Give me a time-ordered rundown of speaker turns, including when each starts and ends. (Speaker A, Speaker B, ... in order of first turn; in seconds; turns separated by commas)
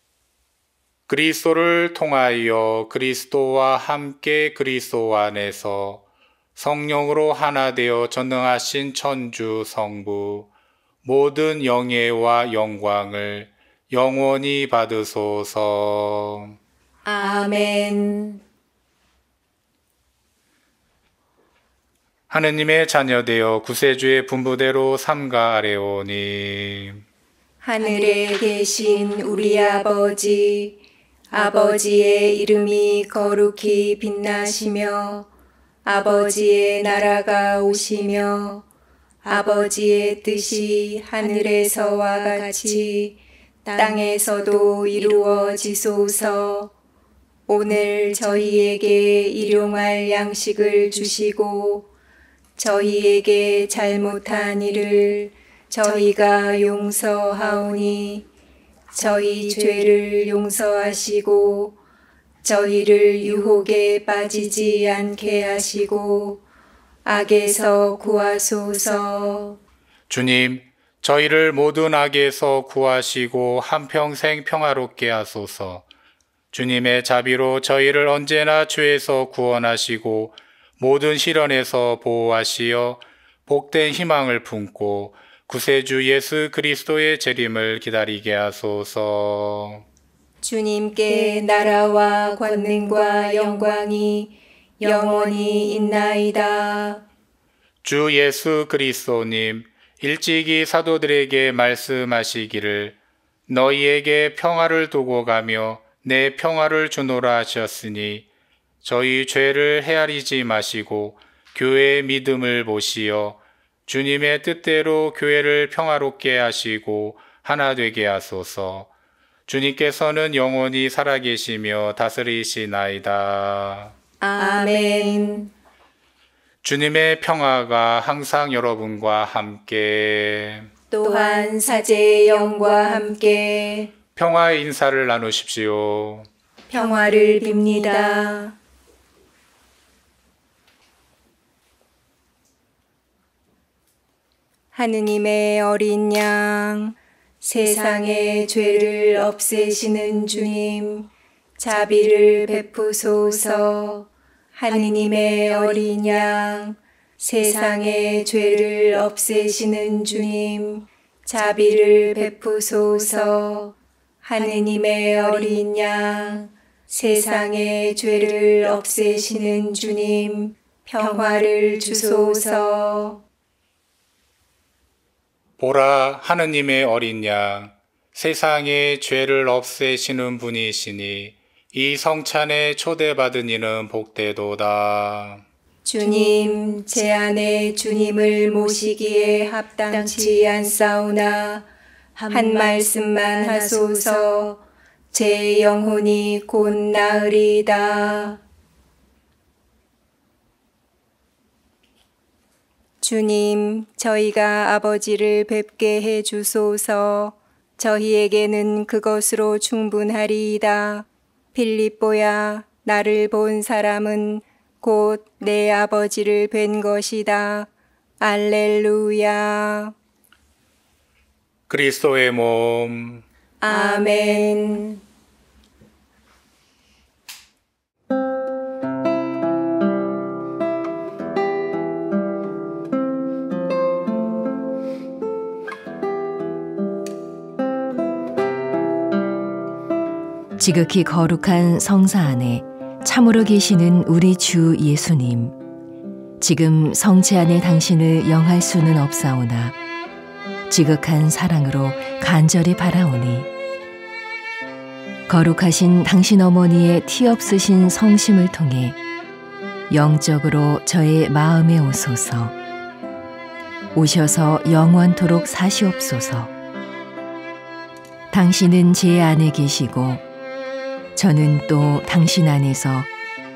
Speaker A: 1.1-6.0, Speaker A: 6.5-10.5, Speaker A: 11.0-16.6, Speaker B: 17.0-18.4, Speaker A: 22.3-27.0, Speaker B: 27.6-30.8, Speaker B: 31.3-35.3, Speaker B: 35.8-38.6, Speaker B: 39.2-46.7, Speaker B: 47.5-51.9, Speaker B: 52.6-58.3, Speaker B: 58.9-61.8, Speaker B: 62.4-66.4, Speaker B: 67.0-69.6, Speaker A: 70.1-75.8, Speaker A: 76.5-89.8, Speaker B: 90.4-97.0, Speaker A: 97.8-103.0, Speaker A: 103.5-108.3, Speaker A: 108.8-118.9, Speaker A: 119.5-123.9, Speaker B: 124.2-125.5, Speaker A: 126.6-130.7, Speaker B: 130.9-133.9, Speaker A: 134.2-136.3, Speaker B: 136.7-138.6, Speaker B: 144.7-173.2, Speaker A: 175.6-185.4, Speaker B: 185.8-191.7, Speaker B: 192.3-198.4, Speaker B: 203.0-217.7, Speaker B: 218.2-219.9, Speaker A: 221.7-223.2, Speaker B: 223.6-225.0, Speaker C: 240.6-245.6, Speaker C: 246.4-249.7, Speaker C: 250.7-253.5, Speaker C: 255.3-259.0, Speaker C: 259.9-262.5, Speaker C: 263.9-266.5, Speaker C: 268.3-270.2, Speaker C: 271.1-273.1